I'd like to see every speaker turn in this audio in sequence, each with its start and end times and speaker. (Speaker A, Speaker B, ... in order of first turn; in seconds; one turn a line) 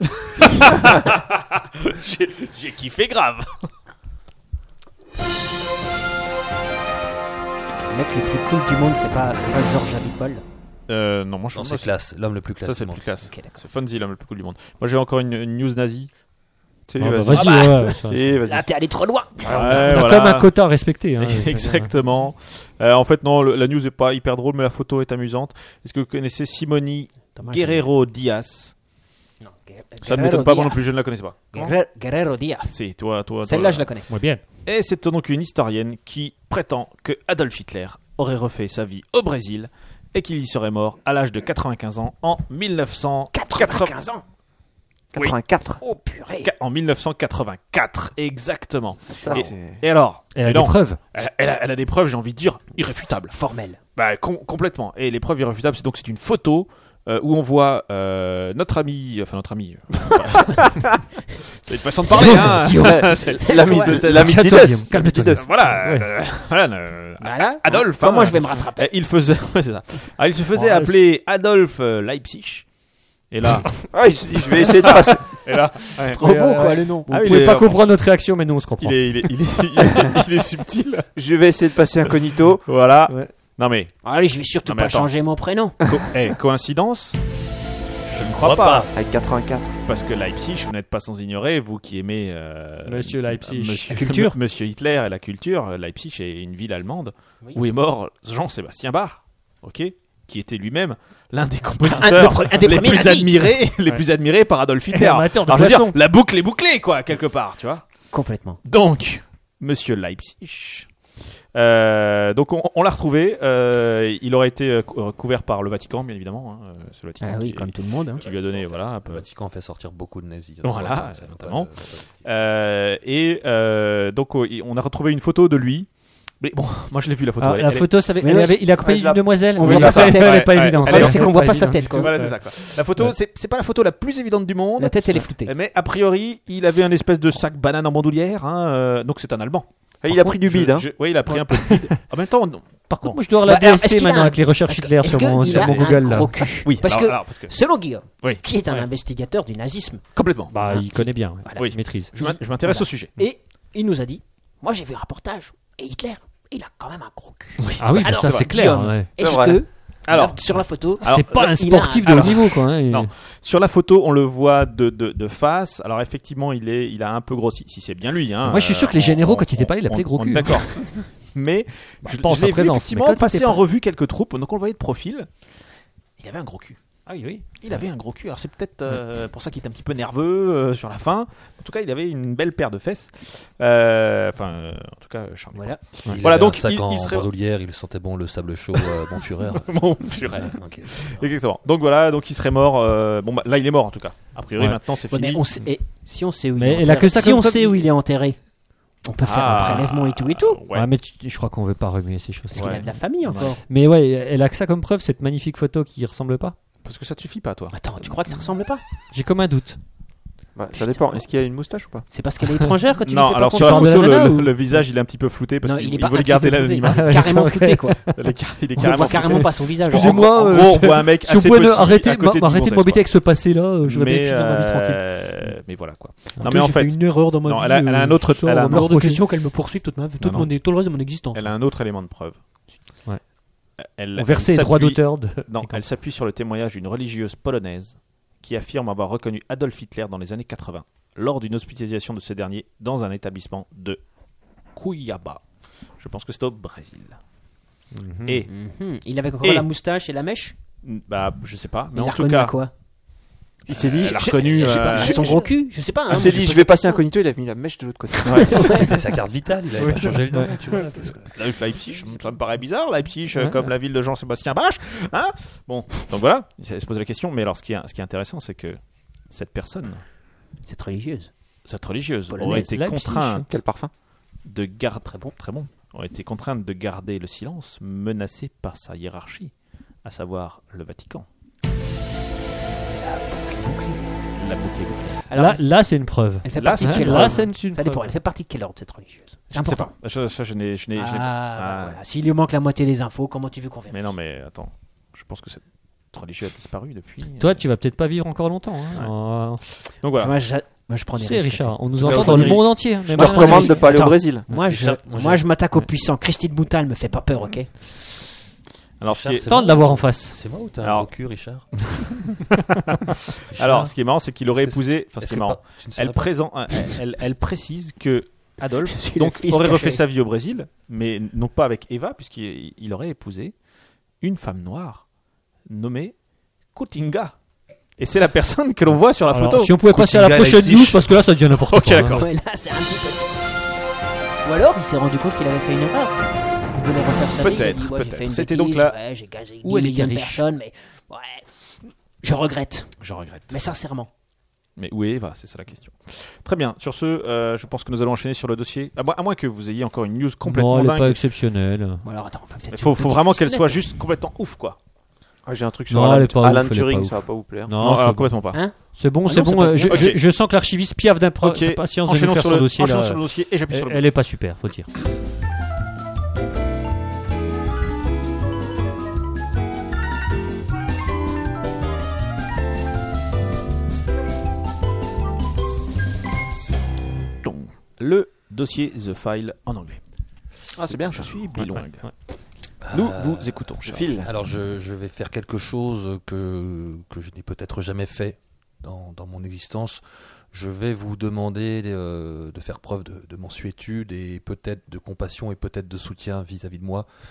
Speaker A: 0.4-3.7
Speaker B: 7.9-10.4
Speaker A: 10.9-11.9
Speaker C: 11.6-13.1
Speaker A: 12.6-16.1
Speaker B: 13.3-13.6
Speaker D: 16.9-18.7
Speaker E: 17.0-18.2
Speaker B: 17.3-20.0
Speaker A: 19.4-20.5
Speaker E: 19.6-21.9
Speaker A: 21.2-28.7
Speaker B: 27.4-27.9
Speaker B: 29.4-30.8
Speaker A: 30.0-31.8
Speaker B: 31.5-32.8
Speaker A: 32.7-34.0
Speaker B: 33.4-34.1
Speaker E: 34.1-34.4
Speaker A: 34.6-44.0
Speaker B: 43.3-44.2
Speaker D: 45.1-45.8
Speaker B: 45.8-46.5
Speaker A: 46.4-53.4
Speaker B: 49.2-49.5
Speaker D: 49.2-49.8
Speaker E: 50.4-51.0
Speaker B: 53.3-53.8
Speaker A: 54.0-61.0
Speaker A: 61.6-64.5
Speaker B: 62.1-64.0
Speaker E: 62.2-62.7
Speaker D: 62.7-65.5
Speaker E: 64.1-66.1
Speaker A: 65.4-72.7
Speaker B: 67.2-68.9
Speaker E: 70.5-71.0
Speaker A: 73.3-73.9
Speaker D: 73.9-75.3
Speaker A: 74.6-76.2
Speaker B: 76.1-77.1
Speaker E: 76.2-79.0
Speaker A: 77.1-77.8
Speaker A: 78.8-81.1
Speaker D: 81.2-82.7
Speaker A: 82.7-84.0
Speaker B: 84.0-85.9
Speaker A: 84.7-85.1
Speaker A: 85.8-87.2
Speaker C: 88.1-88.9
Speaker A: 88.2-88.9
Speaker D: 88.9-89.7
Speaker A: 89.9-107.8
Speaker E: 92.9-94.0
Speaker B: 93.9-94.4
Speaker B: 101.8-103.5
Speaker E: 104.9-106.0
Speaker B: 108.1-108.6
Speaker A: 108.6-110.9
Speaker A: 111.5-119.2
Speaker B: 117.2-118.3
Speaker C: 118.5-122.2
Speaker A: 120.6-121.7
Speaker A: 122.2-125.9
Speaker A: 126.4-127.9
Speaker E: 127.4-133.1
Speaker B: 128.2-128.8
Speaker D: 128.8-130.2
Speaker B: 129.6-132.3
Speaker A: 129.6-143.2
Speaker B: 134.8-135.5
Speaker D: 140.0-140.9
Speaker E: 141.3-141.9
Speaker E: 142.9-146.4
Speaker B: 143.4-150.0
Speaker A: 145.5-145.9
Speaker A: 146.7-147.6
Speaker A: 148.2-148.9
Speaker A: 150.2-150.5
Speaker E: 150.5-152.1
Speaker B: 150.6-162.5
Speaker A: 151.6-153.1
Speaker A: 157.6-158.5
Speaker E: 157.8-159.1
Speaker D: 159.2-159.6
Speaker A: 160.1-175.3
Speaker E: 161.0-163.1
Speaker E: 168.5-170.7
Speaker E: 172.1-173.5
Speaker A: 176.2-176.8
Speaker E: 177.1-177.4
Speaker A: 177.6-187.3
Speaker B: 185.5-185.8
Speaker C: 186.1-191.2
Speaker A: 188.7-195.4
Speaker B: 195.1-198.4
Speaker E: 196.6-197.9
Speaker B: 199.0-200.6
Speaker A: 199.2-200.9
Speaker E: 200.7-206.6
Speaker B: 202.5-203.6
Speaker A: 202.6-203.5
Speaker A: 206.8-208.2
Speaker B: 207.7-208.8
Speaker E: 209.1-209.8
Speaker D: 210.6-212.1
Speaker B: 212.1-214.0
Speaker A: 213.1-217.4
Speaker E: 213.6-214.5
Speaker B: 215.6-218.1
Speaker E: 216.9-218.2
Speaker A: 218.1-223.2
Speaker B: 218.8-220.3
Speaker E: 219.8-225.0
Speaker A: 223.8-228.9
Speaker B: 226.4-231.5
Speaker E: 228.3-229.2
Speaker A: 230.2-230.5
Speaker A: 231.3-232.4
Speaker A: 233.8-244.0
Speaker E: 234.2-235.8
Speaker A: 244.7-245.4
Speaker A: 246.0-247.2
Speaker E: 247.9-248.4
Speaker B: 248.5-250.6
Speaker A: 250.8-252.6
Speaker B: 251.9-252.7
Speaker D: 253.7-255.3
Speaker A: 253.7-255.4
Speaker B: 254.1-257.0
Speaker D: 256.1-258.8
Speaker A: 258.3-258.6
Speaker B: 258.3-259.0
Speaker C: 258.7-261.3
Speaker E: 259.8-260.6
Speaker A: 261.3-268.8
Speaker E: 263.4-263.7
Speaker A: 269.3-270.0
Speaker B: 270.6-271.3
Speaker A: 271.6-273.5
Speaker B: 272.3-272.7
Speaker E: 272.4-273.5
Speaker D: 273.5-273.9
Speaker A: 274.4-279.5
Speaker A: 280.0-281.3
Speaker B: 282.9-284.1
Speaker A: 284.4-285.2
Speaker B: 285.3-285.6
Speaker E: 285.3-288.1
Speaker B: 286.4-289.9
Speaker A: 286.6-287.5
Speaker A: 289.5-292.0
Speaker B: 290.9-294.1
Speaker A: 293.9-297.6
Speaker E: 297.4-299.6
Speaker A: 300.0-300.4
Speaker B: 300.2-307.8
Speaker E: 301.2-304.2
Speaker A: 302.0-302.6
Speaker D: 302.0-304.5
Speaker C: 304.5-305.4
Speaker A: 309.0-309.5
Speaker C: 309.1-311.8
Speaker E: 309.5-310.4
Speaker A: 310.8-311.1
Speaker A: 311.7-323.5
Speaker C: 313.5-313.9
Speaker C: 314.5-316.9
Speaker B: 318.9-320.0
Speaker A: 324.2-325.1
Speaker A: 325.7-326.2
Speaker A: 326.7-327.4
Speaker A: 328.0-329.8
Speaker E: 329.3-332.3
Speaker C: 329.9-331.1
Speaker A: 331.6-332.3
Speaker B: 332.1-333.4
Speaker B: 334.4-341.4
Speaker A: 337.4-338.9
Speaker E: 339.6-340.5
Speaker B: 342.2-343.0
Speaker A: 343.0-343.6
Speaker B: 343.5-344.1
Speaker A: 344.8-351.2
Speaker E: 350.4-352.0
Speaker B: 352.0-353.9
Speaker A: 352.7-354.8
Speaker D: 355.5-357.7
Speaker E: 355.9-364.9
Speaker A: 357.8-358.6
Speaker B: 358.5-360.1
Speaker A: 359.9-360.2
Speaker A: 361.4-364.0
Speaker A: 377.4-380.0
Speaker D: 380.8-381.8
Speaker A: 380.9-382.1
Speaker C: 382.8-397.1
Speaker A: 382.9-384.1
Speaker D: 383.8-384.3